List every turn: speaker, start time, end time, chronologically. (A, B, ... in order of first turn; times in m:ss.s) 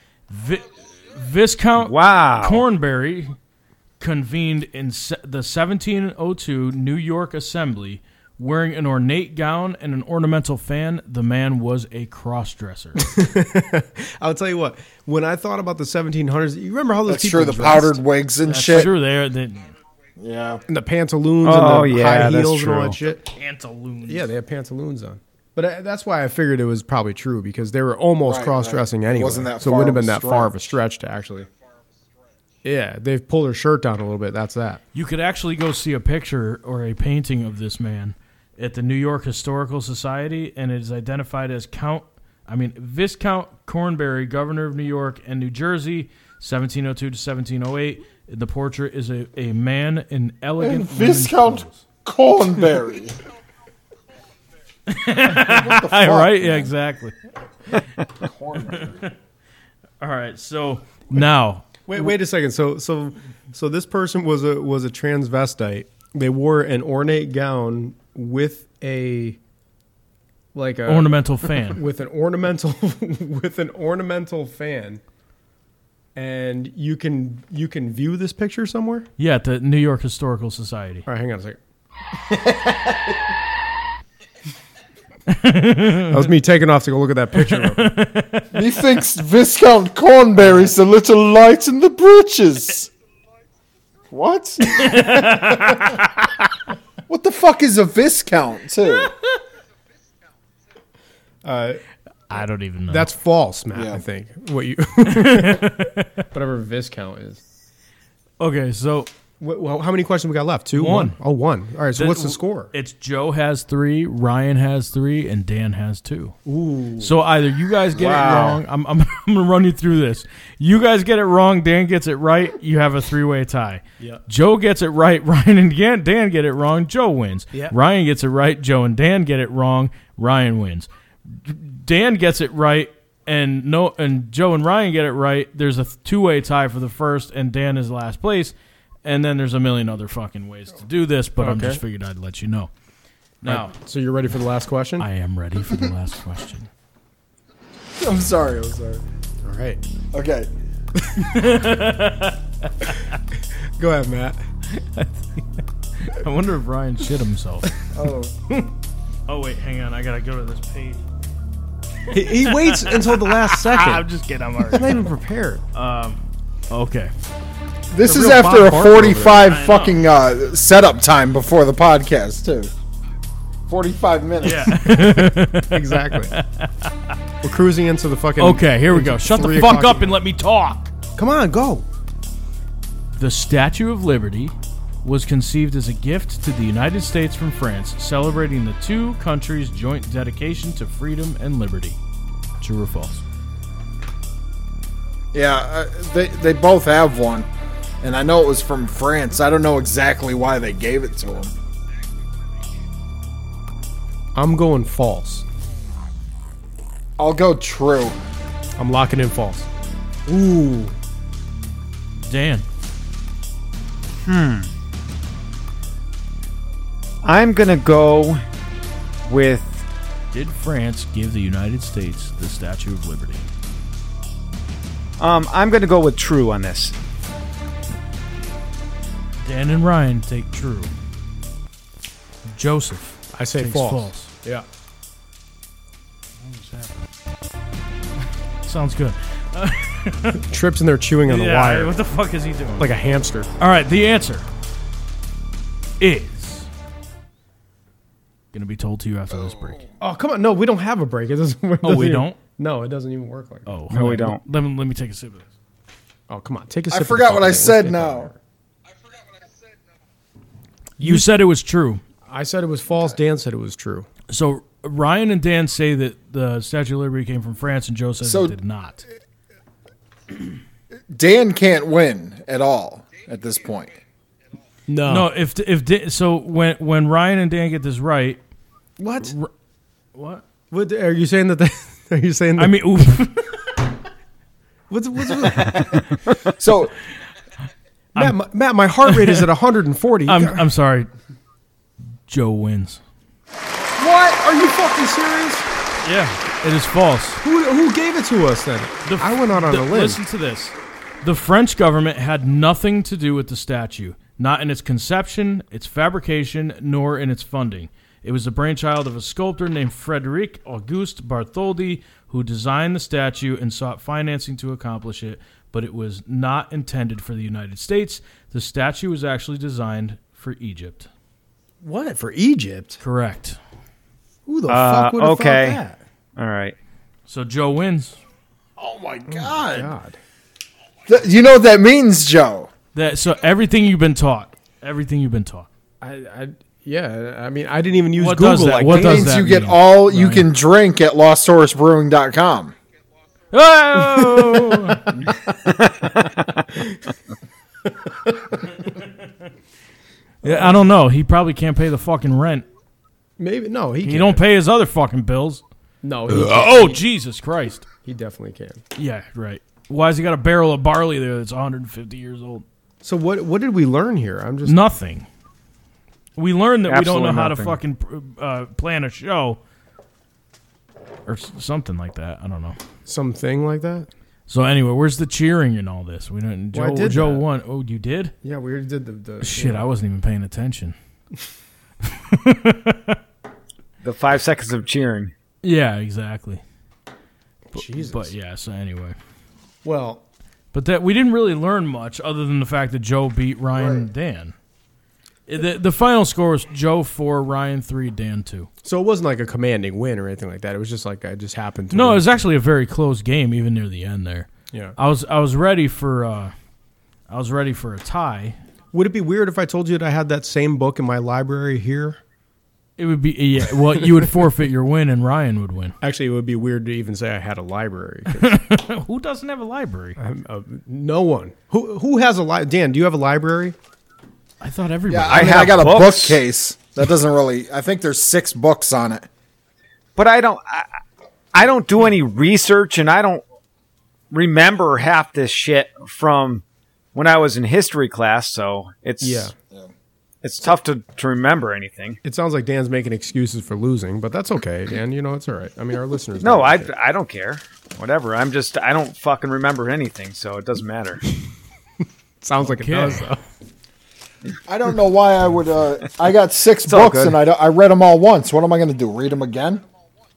0:00.3-0:03.3 A
0:01.8-0:02.6 B
0:04.0-0:13.1 A
0:13.0-0:18.0 C
0:17.0-0:18.9 D
0:18.4-0:19.7 A
0:20.2-0:20.6 D
0:20.7-0:23.2 C
0:21.4-0:23.0 B
0:23.2-0:24.3 A
0:24.1-0:31.5 C
0:28.2-0:30.6 D
0:32.6-0:34.8 C
0:34.9-0:51.8 A
0:50.6-0:53.2 D
0:54.9-0:57.2 A
0:55.2-0:56.7 D
0:58.2-0:59.1 D
0:58.6-0:59.1 A
1:00.0-1:01.9 A
1:01.9-1:09.4 C
1:10.5-1:15.0 C
1:10.8-1:11.8 A
1:16.1-1:19.1 C
1:19.2-1:21.0 A
1:21.0-1:21.6 C
1:22.3-1:23.1 D
1:25.3-1:26.3 A
1:26.1-1:28.0 C
1:27.4-1:28.5 A
1:28.5-1:32.9 D
1:30.4-1:30.7 C
1:34.1-1:35.9 D
1:34.6-1:36.2 A
1:37.1-1:39.1 D
1:41.4-1:41.8 C
1:42.3-1:43.1 A
1:42.9-1:47.4 C
1:43.7-1:44.0 D
1:45.0-1:46.2 A
1:48.4-1:49.1 A
1:49.4-1:52.7 C
1:50.7-1:51.2 A
1:51.9-1:56.4 A
1:56.4-1:57.2 C
1:57.0-2:22.7 A
1:58.0-1:58.3 D
2:21.4-2:21.8 C
2:23.4-2:23.7 A
2:23.4-2:25.1 C
2:25.0-2:26.7 A
2:28.0-2:29.0 D
2:29.4-2:29.8 C
2:30.1-2:30.5 D
2:31.2-2:33.2 A
2:33.4-2:34.4 C
2:34.7-2:37.8 A
2:37.9-2:38.3 D
2:39.3-2:41.0 A
2:42.1-2:44.0 C
2:42.1-2:45.1 A
2:44.6-2:45.6 C
2:45.7-2:47.1 A
2:47.9-2:52.7 D
2:48.0-2:49.5 C
2:49.4-2:50.0 A
2:53.7-2:54.8 D
2:54.4-2:57.1 A
2:54.8-2:56.3 C
2:57.4-3:00.2 C
2:58.4-3:00.9 A
3:01.2-3:01.8 C
3:03.1-3:12.0 A
3:12.6-3:13.2 A
3:15.3-3:17.5 D
3:18.0-3:21.5 D
3:24.3-3:25.4 C
3:27.2-3:28.2 D
3:28.8-3:29.7 C
3:30.3-3:31.0 C
3:32.2-3:32.6 A
3:34.2-3:34.7 B
3:37.2-3:38.4 B
3:39.2-3:39.8 B
3:40.3-3:43.4 A
3:45.2-3:46.9 B
3:49.4-3:50.9 A
3:52.5-3:54.3 A
3:53.3-3:54.6 C
3:56.4-3:57.0 A
3:58.6-4:00.4 A
4:00.4-4:02.0 C
4:01.2-4:02.9 A
4:02.8-4:03.5 C
4:03.6-4:04.5 A
4:06.0-4:06.7 A
4:08.5-4:09.8 A
4:10.0-4:13.7 C
4:11.8-4:12.4 A
4:13.6-4:15.5 A
4:13.9-4:14.4 B
4:16.3-4:18.4 C
4:16.9-4:18.3 D
4:21.0-4:21.3 C
4:21.0-4:22.0 A
4:22.2-4:24.1 C
4:24.3-4:29.0 A
4:28.2-4:28.6 D
4:31.1-4:34.0 D
4:34.9-4:35.3 C
4:35.0-4:38.4 A
4:39.0-4:39.4 C
4:39.2-4:39.5 A
4:40.1-4:40.4 A
4:40.7-4:42.8 C
4:42.6-4:43.8 A
4:44.9-4:46.1 C
4:46.6-4:47.0 D
4:48.1-4:50.6 C
4:49.0-4:49.4 A
4:50.2-4:51.1 A
4:52.3-4:53.0 A
4:54.0-4:55.6 C
4:56.0-4:57.4 A
4:57.4-5:00.2 C
4:59.0-5:21.1 A
5:21.8-5:23.0 C
5:23.0-5:23.6 A
5:24.4-5:26.0 C
5:24.7-5:25.8 B
5:26.4-5:26.7 B
5:27.3-5:28.2 A
5:28.8-5:29.9 D
5:29.3-5:30.2 C
5:31.1-5:32.7 D
5:32.9-5:35.7 A
5:36.0-5:39.6 C
5:38.1-5:40.4 A
5:38.9-5:42.7 D
5:43.5-5:45.1 A
5:44.4-5:44.9 C
5:46.7-5:47.0 C
5:47.8-5:48.6 C
5:50.4-5:50.8 C
5:50.4-5:52.6 A
5:53.4-5:54.4 C
5:54.0-5:55.6 A
5:56.0-5:57.0 C
5:56.3-5:57.8 A
5:58.0-5:58.8 C
5:58.9-6:02.6 A
6:03.0-6:04.8 C
6:04.6-6:05.3 A
6:06.4-6:09.6 A
6:06.9-6:07.8 B
6:11.3-6:12.8 A
6:13.0-6:14.1 C
6:14.5-6:18.3 A
6:16.7-6:17.4 C
6:18.4-6:19.9 C
6:19.4-6:21.0 A
6:22.0-6:23.2 A
6:24.0-6:25.3 B
6:25.6-6:26.6 A
6:27.7-6:28.3 C
6:27.7-6:29.2 A
6:29.8-6:30.2 C
6:30.7-6:34.5 A
6:35.5-6:38.7 A
6:38.8-6:42.3 C
6:41.9-6:46.5 A
6:47.3-6:48.6 A
6:48.9-6:52.2 C
6:53.0-6:56.0 A
6:56.0-6:58.6 C
6:58.3-7:00.2 A
7:00.2-7:03.8 C
7:04.6-7:06.0 A
7:05.1-7:09.3 D
7:05.3-7:06.4 B
7:10.2-7:10.9 B
7:11.5-7:13.4 B
7:14.3-7:16.6 B
7:17.1-7:19.5 B
7:19.2-7:19.5 C
7:20.4-7:22.2 B
7:22.2-7:26.9 C
7:26.4-7:31.2 B
7:32.4-7:33.4 C
7:32.6-7:33.3 A
7:34.7-7:39.8 D
7:36.8-7:37.4 B